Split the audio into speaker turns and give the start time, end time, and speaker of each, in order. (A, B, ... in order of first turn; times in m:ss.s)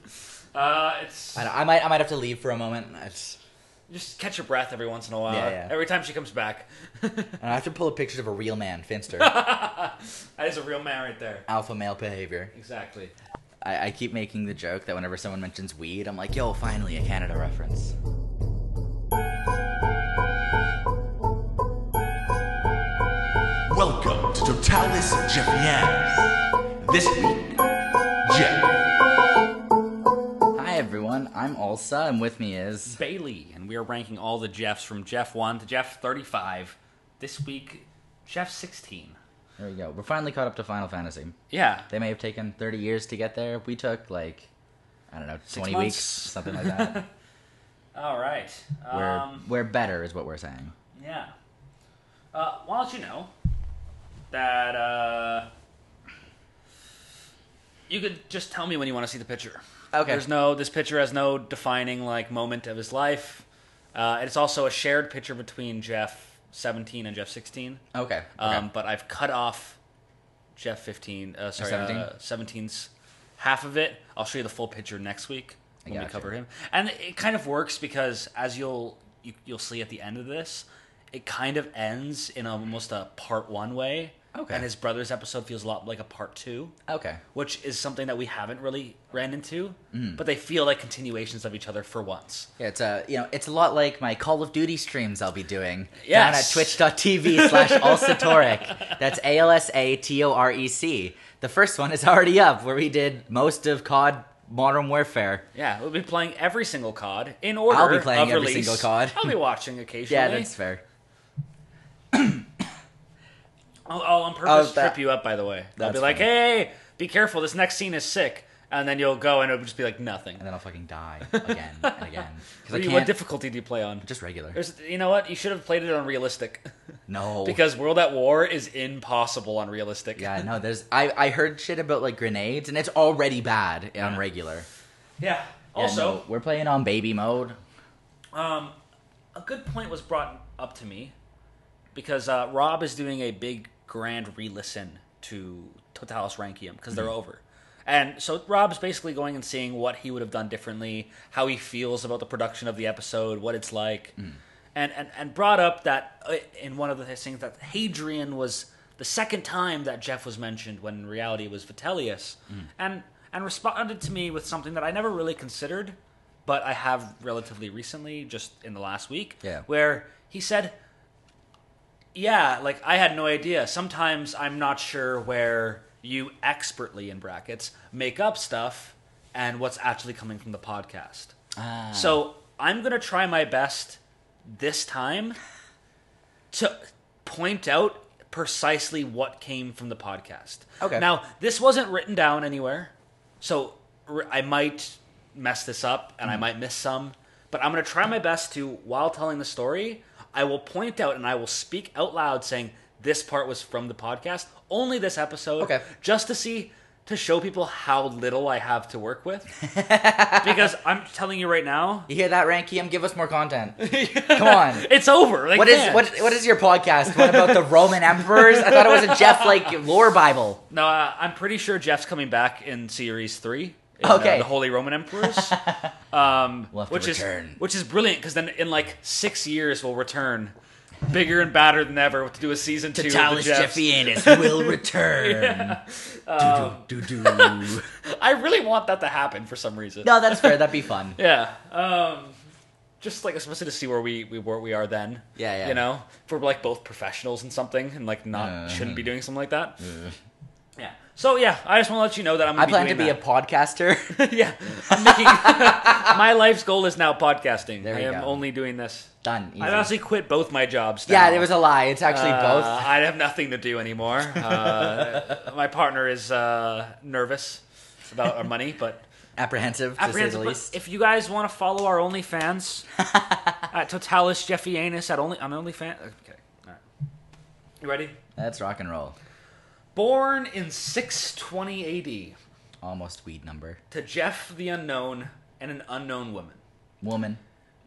0:00.5-0:01.5 A
0:01.4-0:03.4 B
0:03.9-0:07.4 A
0:05.3-0:05.7 B
0:07.4-0:09.3 B
0:09.2-0:11.5 A
0:11.5-0:12.5 B
0:12.5-0:13.1 A
0:13.6-0:17.9 B
0:23.7-0:27.6 C
0:28.2-0:28.7 C
0:30.6-0:33.0 B
0:32.9-0:39.2 A
0:39.6-0:41.4 B
0:41.5-0:41.9 A
0:41.9-0:44.5 B
0:45.1-0:47.0 B
0:45.5-0:47.1 A
0:48.0-0:49.4 A
0:48.9-0:50.7 B
0:51.0-0:51.3 A
0:52.3-0:53.3 A
0:54.3-0:55.5 A
0:57.9-1:07.8 A
0:59.9-1:00.3 B
1:07.9-1:08.6 B
1:08.4-1:09.8 A
1:10.6-1:26.7 A
1:11.6-1:12.1 B
1:15.8-1:16.3 B
1:24.3-1:24.7 B
1:26.9-1:27.2 B
1:27.3-1:32.5 A
1:29.9-1:30.2 B
1:32.6-1:45.4 B
1:36.0-1:38.9 A
1:45.6-1:50.5 A
1:47.7-1:49.3 B
1:50.1-1:50.8 B
1:52.1-1:52.5 B
1:53.9-2:00.4 A
1:54.4-1:55.0 B
1:55.8-1:56.3 B
2:00.4-2:03.2 B
2:01.3-2:06.7 A
2:04.0-2:04.6 B
2:07.1-2:07.6 B
2:07.4-2:10.5 A
2:10.2-2:14.7 B
2:15.2-2:16.2 A
2:15.8-2:17.6 B
2:18.3-2:18.8 A
2:19.4-2:21.1 A
2:22.0-2:34.2 A
2:34.8-2:50.8 A
2:52.2-3:01.3 A
3:01.6-3:02.2 B
3:01.9-3:05.4 A
3:06.5-3:29.5 A
3:25.6-3:25.8 B
3:29.6-3:30.7 B
3:30.4-3:32.1 A
3:32.1-3:34.9 B
3:33.8-3:36.4 A
3:35.5-3:40.6 B
3:37.1-3:39.7 A
3:40.7-3:50.5 A
3:44.0-3:44.5 B
3:45.2-3:45.9 B
3:46.7-3:47.6 B
3:51.1-4:02.4 A
3:53.0-3:55.8 B
3:56.4-3:57.9 B
4:00.0-4:01.2 B
4:03.0-4:09.8 A
4:05.4-4:05.8 B
4:08.3-4:09.1 B
4:09.8-4:10.2 B
4:10.8-4:13.2 A
4:12.6-4:14.2 B
4:14.2-4:29.0 A
4:14.9-4:16.2 B
4:17.8-4:18.4 B
4:19.2-4:19.9 B
4:21.1-4:22.9 B
4:24.5-4:25.2 B
4:29.4-4:30.7 B
4:30.0-4:32.9 A
4:33.1-4:33.6 B
4:33.7-4:36.8 A
4:37.8-4:38.2 A
4:38.4-4:39.2 B
4:40.0-4:42.4 A
4:42.8-4:43.8 B
4:43.9-4:46.6 A
4:47.0-4:47.4 B